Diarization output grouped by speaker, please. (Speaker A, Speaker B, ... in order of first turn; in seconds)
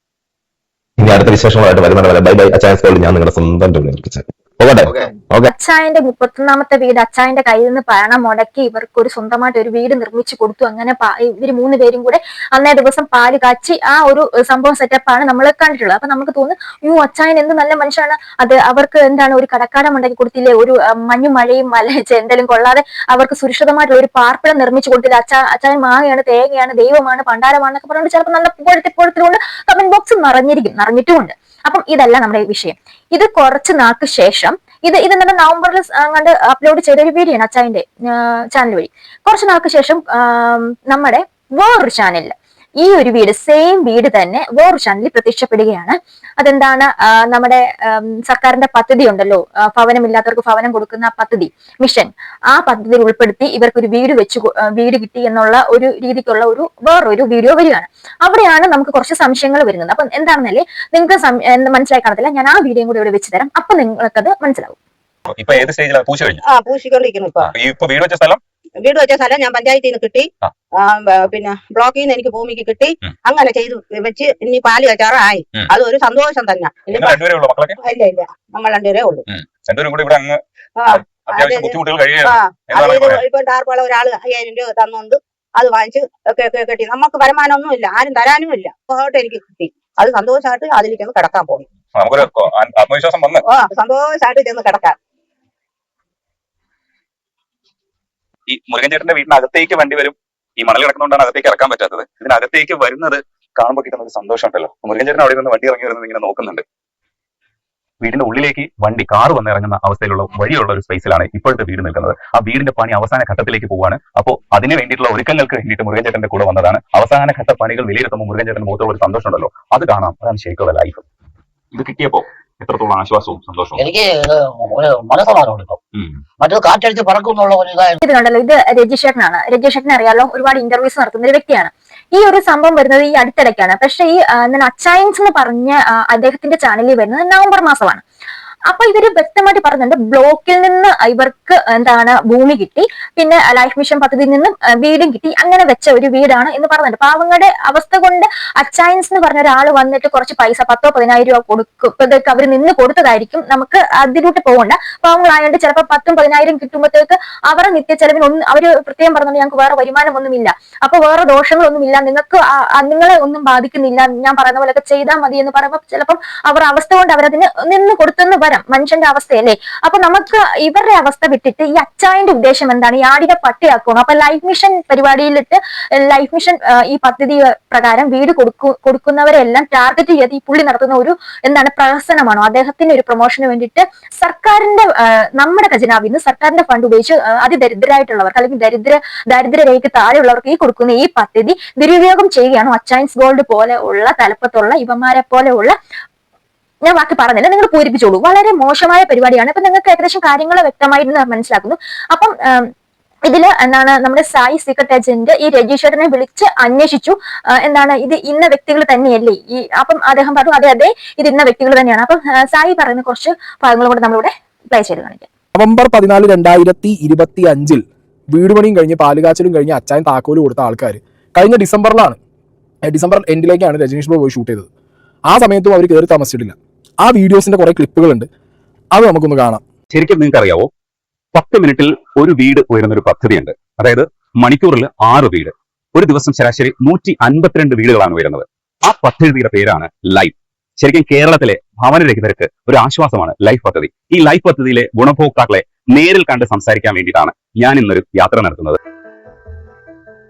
Speaker A: 1.0-5.5
Speaker B: 5.5-64.8, 128.0-138.0, 138.7-195.8, 196.8-202.7, 203.3-215.3
Speaker C: 65.3-66.4, 67.4-68.4, 76.9-77.8, 79.3-83.2, 92.0-93.4, 98.5-106.6, 108.0-121.0, 121.7-123.9, 229.9-230.7, 231.3-248.8
Speaker D: 66.5-67.5, 68.8-70.3, 70.8-77.2, 77.8-79.2, 80.8-91.7, 93.5-95.0
Speaker E: 123.8-125.8, 126.4-128.0
Speaker F: 215.6-222.2, 222.9-224.7, 225.3-228.3, 228.9-229.6